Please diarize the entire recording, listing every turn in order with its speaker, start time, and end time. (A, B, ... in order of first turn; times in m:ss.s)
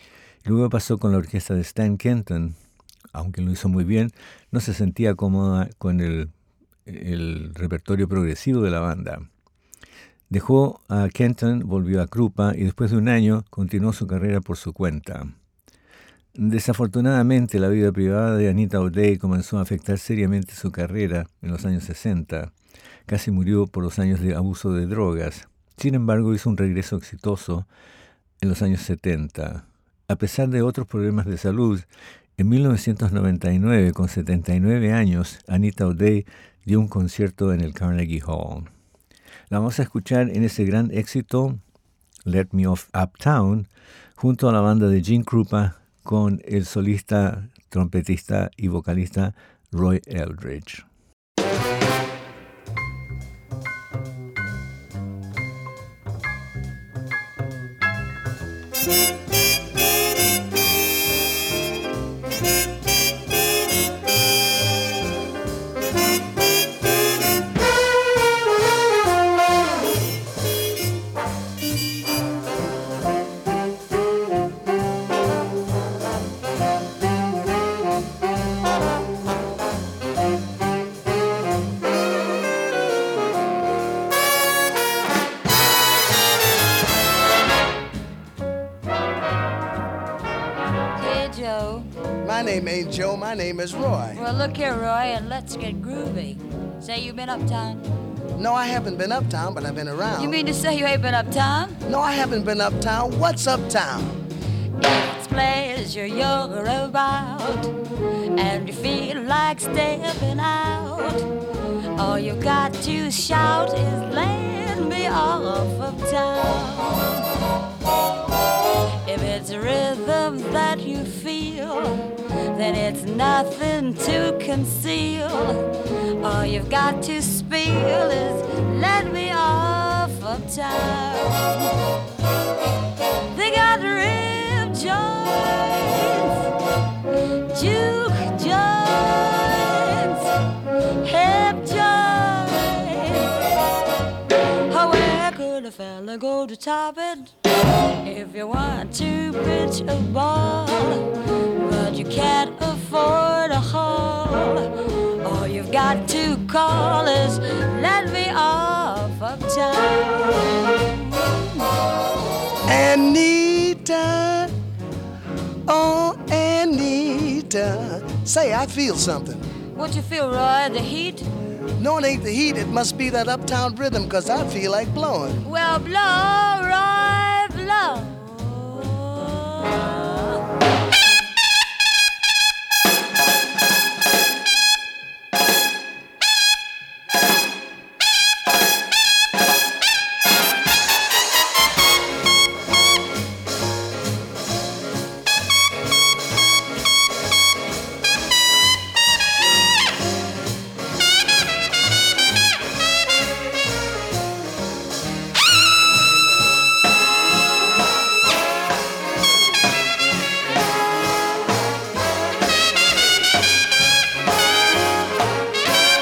0:00.4-0:02.6 A
0:03.1-0:06.3 A
0:06.8-0:09.2 A
0:10.3-0:15.3 A
0:16.3-0:22.5 A
0:23.1-0:27.7 A
0:28.4-0:38.7 A
0:39.5-0:41.6 A
0:42.2-0:50.8 A
1:31.0-1:31.9 B
1:32.2-1:34.2 C
1:34.1-1:37.8 B
1:38.4-1:40.4 C
1:40.2-1:41.8 B
1:41.8-1:44.1 C
1:44.8-1:47.7 B
1:48.3-1:51.3 B
1:51.9-1:57.2 B
1:59.0-2:02.0 B
2:02.5-2:05.7 B
2:06.2-2:11.7 B
2:13.3-2:16.4 B
2:17.5-2:20.3 B
2:21.0-2:23.4 B
2:24.7-2:27.3 B
2:28.0-2:31.0 B
2:31.6-2:34.7 B
2:35.2-2:41.6 B
2:42.7-2:44.5 C
2:45.7-2:49.4 C
2:49.7-2:51.3 B
2:51.8-2:55.4 C
2:55.4-3:00.5 B